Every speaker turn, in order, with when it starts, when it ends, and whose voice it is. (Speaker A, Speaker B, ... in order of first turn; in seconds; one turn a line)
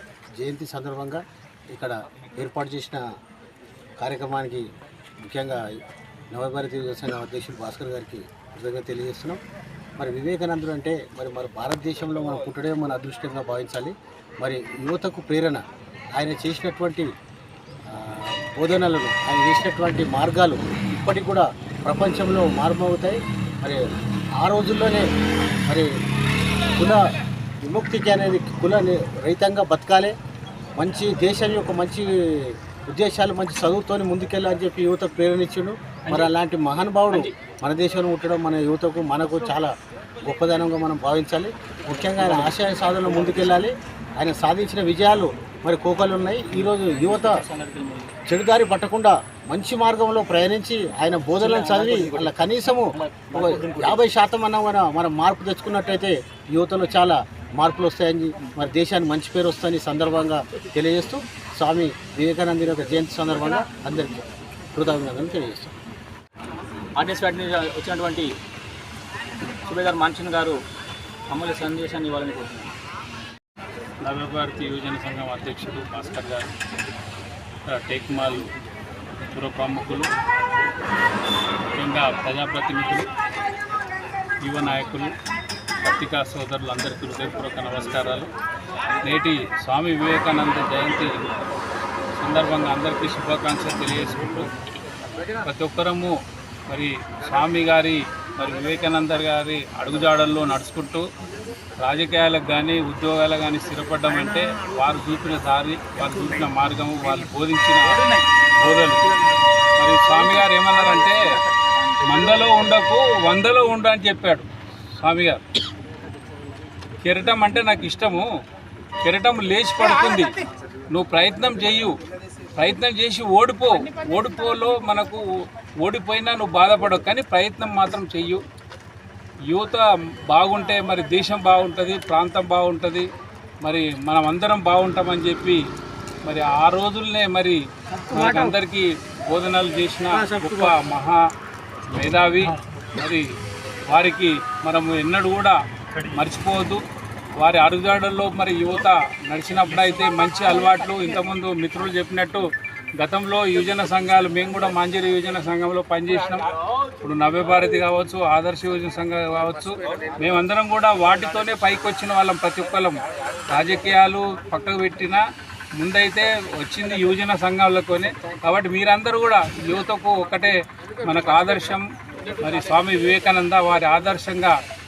Speaker A: 0.4-3.0
Speaker A: 4.0-4.6
Speaker A: 5.2-5.7
Speaker A: 6.3-9.4
Speaker A: 10.0-15.6
Speaker A: 16.2-17.1
Speaker A: 17.9-23.8
Speaker A: 24.4-25.1
Speaker A: 27.6-30.1
Speaker A: 30.8-47.4
Speaker B: 36.1-36.3
Speaker B: 41.9-42.5
Speaker B: 43.0-43.5
Speaker B: 46.5-48.1
Speaker A: 48.3-64.2
Speaker B: 51.4-54.1
Speaker A: 64.7-65.7
Speaker B: 67.0-68.3
Speaker B: 69.7-70.6
Speaker B: 71.3-72.7
Speaker C: 74.0-76.5
Speaker C: 77.7-78.5
Speaker C: 79.3-80.1
Speaker C: 81.8-83.1
Speaker C: 84.4-85.1
Speaker C: 85.8-88.3
Speaker C: 89.0-91.3
Speaker C: 92.2-94.5
Speaker C: 95.5-96.2
Speaker C: 96.7-101.1
Speaker C: 101.8-108.0
Speaker C: 108.6-109.0
Speaker C: 109.8-111.2
Speaker C: 112.0-114.5
Speaker C: 115.0-115.4
Speaker C: 117.0-118.3
Speaker C: 119.0-120.3
Speaker C: 120.9-121.9
Speaker C: 122.6-125.2
Speaker C: 125.8-128.4
Speaker C: 129.5-133.1
Speaker C: 133.6-135.6
Speaker C: 136.2-137.6
Speaker C: 138.1-141.2
Speaker C: 141.9-143.2
Speaker C: 143.9-145.6
Speaker C: 146.2-146.8
Speaker C: 147.4-152.4
Speaker C: 153.0-156.4
Speaker C: 157.0-165.2
Speaker C: 165.8-170.5
Speaker C: 171.1-171.9
Speaker C: 172.4-174.6